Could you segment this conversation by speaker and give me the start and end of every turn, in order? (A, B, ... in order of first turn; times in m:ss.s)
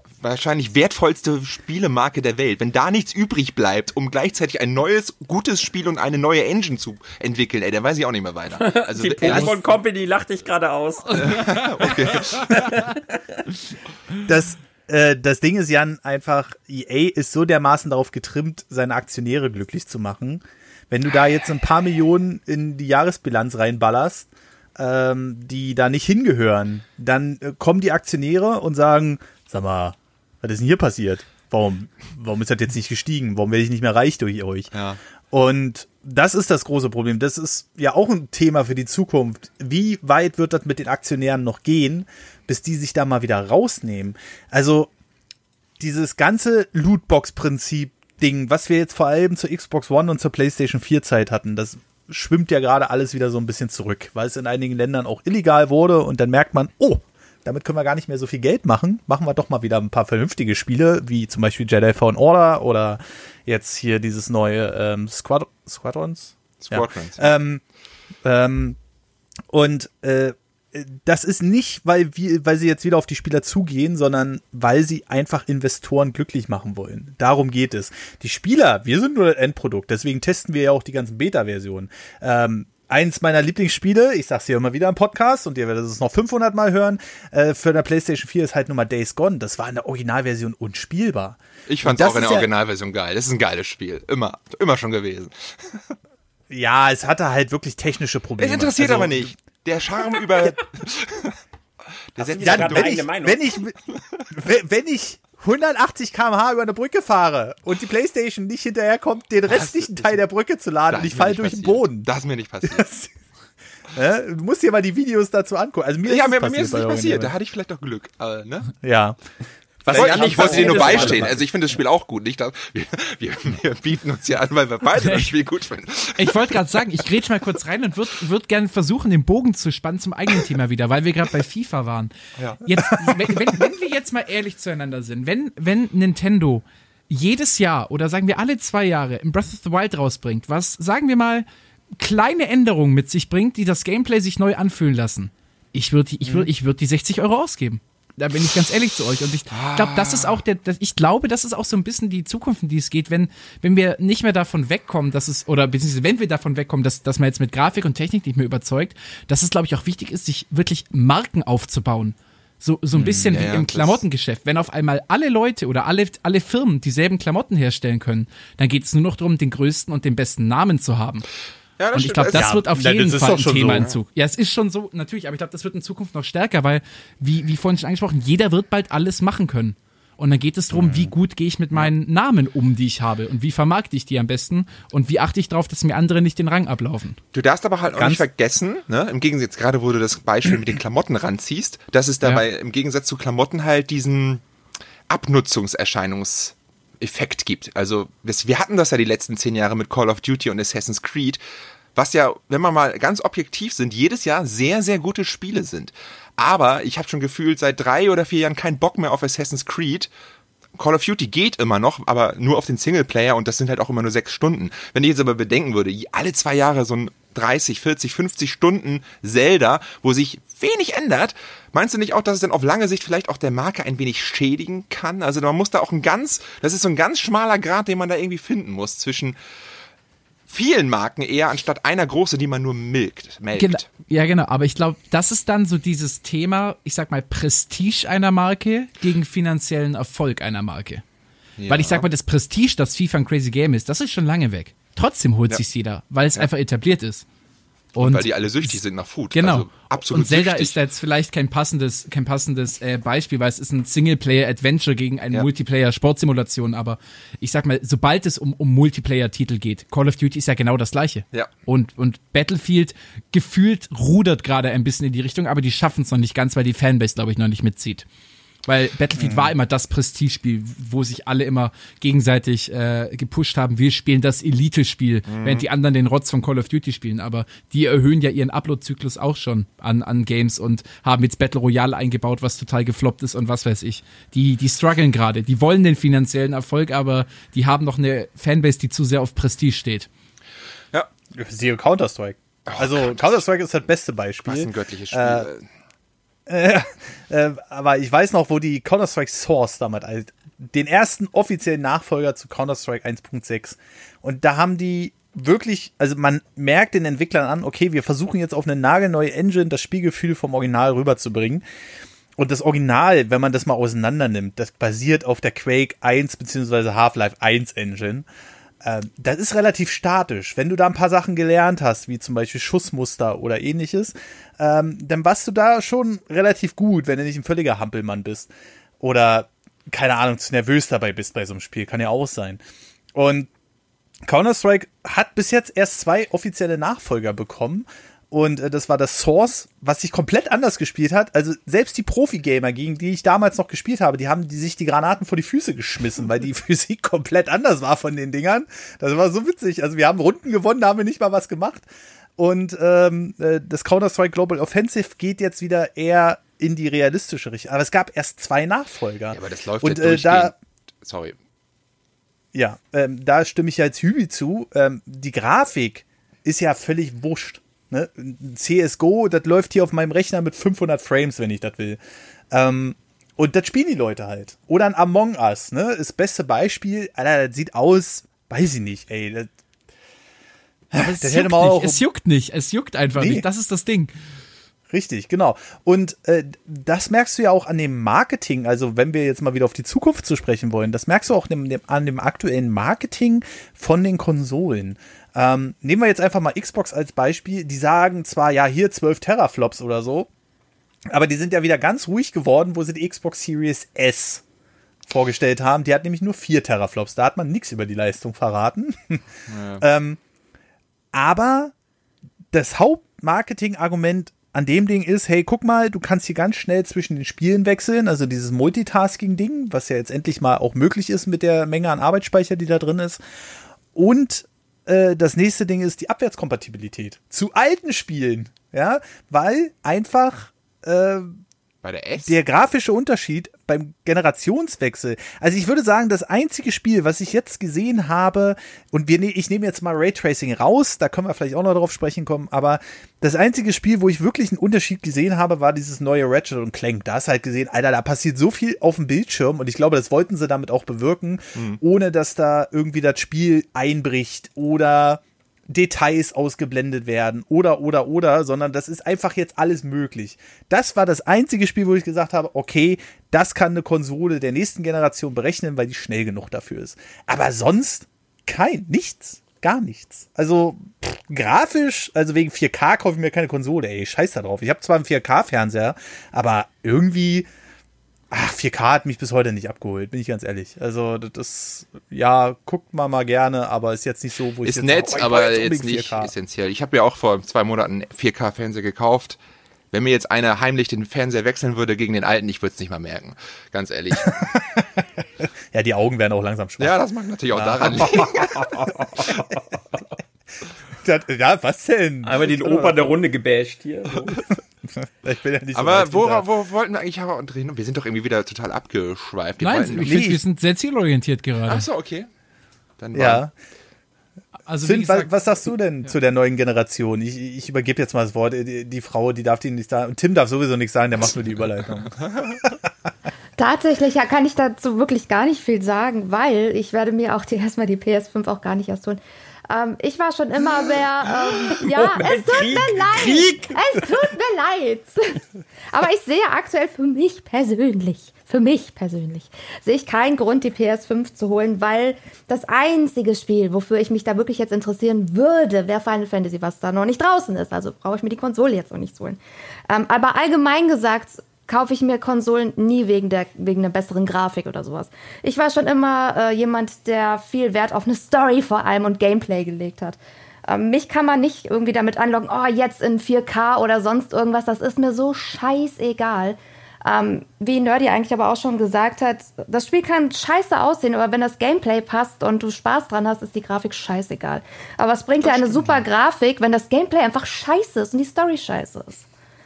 0:00.2-0:09.7 A
0:08.6-0:11.6 B
0:11.2-0:12.8 A
0:11.3-0:11.7 C
0:12.5-0:13.2 B
0:14.2-0:34.7 D
0:34.7-0:35.0 A
0:35.3-0:44.9 D
0:45.8-1:07.6 D
1:06.6-1:07.3 A
1:08.2-1:08.8 D
1:09.5-1:32.5 D
1:31.7-1:35.9 A
1:36.5-1:39.3 D
1:38.4-1:41.4 A
1:42.1-1:43.0 A
1:42.2-1:43.4 B
1:42.4-1:43.8 D
1:44.3-1:52.1 D
1:49.5-1:50.0 A
1:50.9-1:52.9 A
1:52.6-1:53.1 D
1:53.9-1:57.3 D
1:56.0-1:58.7 A
1:58.8-1:59.2 D
1:59.8-2:01.3 B
1:59.9-2:01.4 D
1:59.9-2:06.6 A
2:05.0-2:05.3 C
2:06.1-2:51.2 C
2:12.7-2:13.2 D
2:29.5-2:30.4 A
2:43.0-2:44.0 A
2:43.0-2:43.4 D
2:51.8-2:52.6 A
2:51.9-3:07.2 C
2:52.3-2:53.9 D
3:07.3-3:14.4 A
3:07.9-3:08.2 D
3:15.1-3:21.4 A
3:21.9-3:30.1 A
3:30.8-3:49.4 A
3:50.5-3:53.9 A
3:53.6-4:01.0 C
4:01.6-4:02.0 A
4:01.6-4:07.2 C
4:07.9-4:08.8 C
4:08.0-4:10.8 A
4:09.3-4:28.0 C
4:28.6-4:50.1 C
4:35.3-4:35.6 A
4:51.3-4:55.5 D
4:52.7-4:53.4 A
4:54.4-4:55.6 A
4:56.5-5:11.6 D
5:12.4-5:18.3 D
5:18.8-5:32.6 D
5:33.1-5:33.5 D
5:34.2-6:00.5 D
5:59.3-6:01.4 A
6:02.5-6:12.0 D
6:12.5-6:19.5 D
6:20.9-6:22.0 D
6:20.9-6:24.1 C
6:23.1-6:23.4 D
6:24.9-6:40.3 D
6:41.1-6:44.4 D
6:45.1-6:49.2 D
6:49.5-6:49.8 A
6:49.8-6:50.2 D
6:51.1-6:51.7 D
6:52.5-7:03.2 D
7:03.9-7:11.4 D
7:11.8-7:12.4 A
7:12.2-7:57.5 D
7:58.3-8:06.3 D
8:04.6-8:09.4 A
8:09.9-8:14.4 A
8:14.1-8:17.0 D
8:16.8-8:18.7 A
8:17.5-8:18.2 D
8:18.0-8:19.6 B
8:20.9-8:23.1 D
8:22.2-8:24.4 B
8:25.0-8:26.4 D
8:25.7-8:30.1 A
8:29.6-8:31.9 C
8:30.0-8:30.4 D
8:31.6-8:32.3 A
8:33.0-8:33.5 A
8:33.1-8:33.5 D
8:34.7-8:35.3 C
8:34.8-8:42.9 D
8:42.2-8:42.5 A
8:43.6-9:39.2 E
8:51.6-8:53.7 B